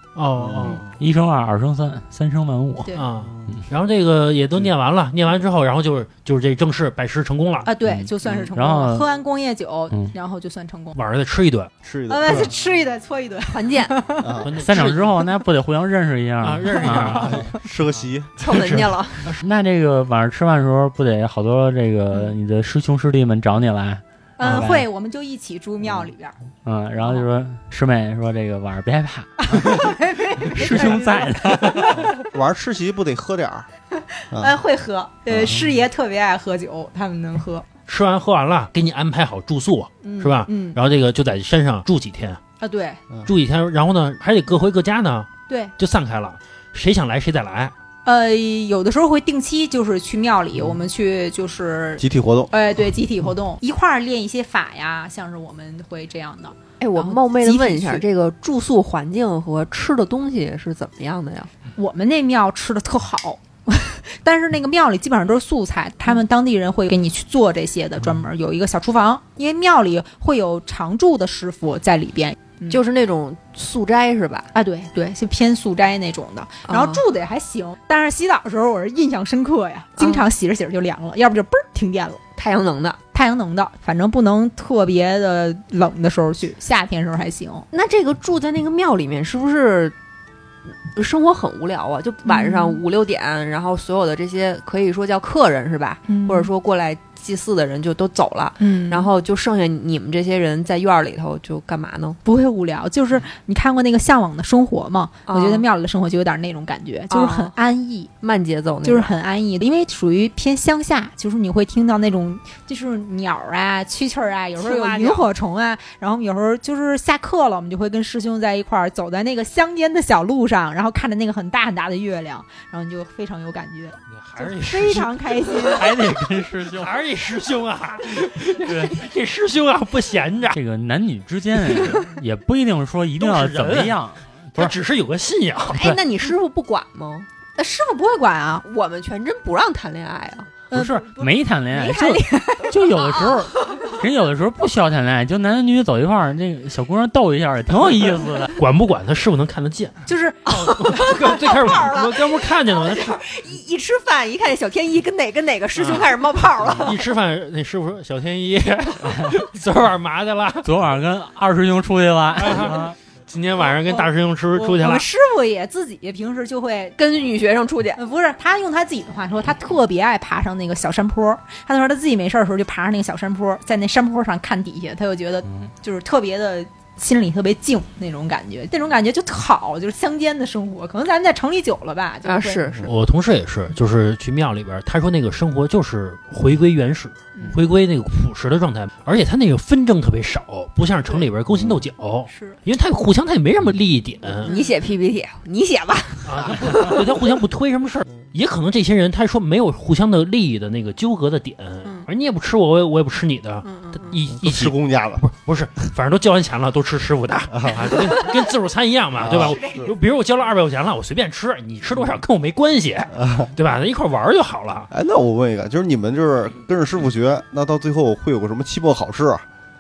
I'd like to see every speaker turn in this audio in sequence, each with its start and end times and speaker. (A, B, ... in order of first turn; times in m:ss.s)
0:00.1-0:00.8 A
0:00.4-0:00.9 B
0:01.0-0:02.9 C
0:02.9-0:07.7 A
0:07.6-0:11.0 D
0:07.9-0:09.1 C
0:10.9-0:11.7 A
0:11.8-0:12.5 B
0:12.1-0:14.4 D
0:13.5-0:13.9 E
0:14.2-0:14.5 B
0:14.4-0:15.1 A
0:14.6-0:17.4 C
0:16.4-0:17.5 A
0:16.8-0:17.3 D
0:17.2-0:18.3 B
0:18.4-0:19.3 E
0:18.4-0:19.4 A
0:19.4-0:24.9 C
0:24.4-0:26.4 D
0:26.6-0:32.0 C
0:29.5-0:32.1 D
0:32.1-0:33.7 B
0:34.3-0:37.6 D
0:35.3-0:35.6 B
0:37.9-0:42.4 A
0:40.0-0:40.8 D
0:42.6-0:43.0 D
0:43.2-0:47.7 A
0:45.5-0:45.7 D
0:48.0-0:58.0 D
0:52.0-0:52.5 B
0:56.8-1:01.5 E
1:01.8-1:12.8 D
1:12.7-1:14.5 E
1:14.5-1:22.2 D
1:16.7-1:17.0 E
1:20.0-1:20.2 E
1:22.4-1:23.0 E
1:23.1-1:27.7 D
1:27.7-1:29.9 E
1:30.9-1:42.2 E
1:32.2-1:32.8 D
1:36.1-1:36.5 D
1:38.6-1:39.1 D
1:42.2-1:48.1 D
1:45.3-1:45.6 E
1:47.1-1:47.5 E
1:48.2-1:49.1 E
1:48.8-2:05.9 D
1:54.6-1:55.3 E
2:04.1-2:05.2 A
2:05.7-2:06.9 C
2:06.6-2:10.6 A
2:08.6-2:09.0 C
2:10.5-2:14.7 C
2:13.2-2:14.0 A
2:14.6-2:15.8 A
2:15.7-2:17.3 E
2:17.6-2:18.6 D
2:18.6-2:20.5 E
2:20.7-2:22.8 D
2:20.7-2:28.6 C
2:28.5-2:33.2 A
2:30.0-2:30.5 D
2:30.5-2:37.1 E
2:35.8-2:36.1 A
2:36.7-2:40.7 A
2:39.0-2:39.4 C
2:40.6-2:42.9 C
2:42.4-2:45.0 A
2:43.8-2:47.0 D
2:47.0-2:48.0 E
2:48.0-3:02.6 D
3:02.2-3:02.9 E
3:02.9-3:14.5 A
3:07.3-3:07.6 D
3:12.3-3:12.6 D
3:14.4-3:14.7 D
3:14.4-3:17.0 E
3:16.2-3:34.9 A
3:23.6-3:24.1 D
3:24.3-3:25.3 B
3:27.5-3:28.2 B
3:29.2-3:29.9 B
3:29.3-3:29.7 E
3:33.1-3:33.5 B
3:34.9-3:39.4 B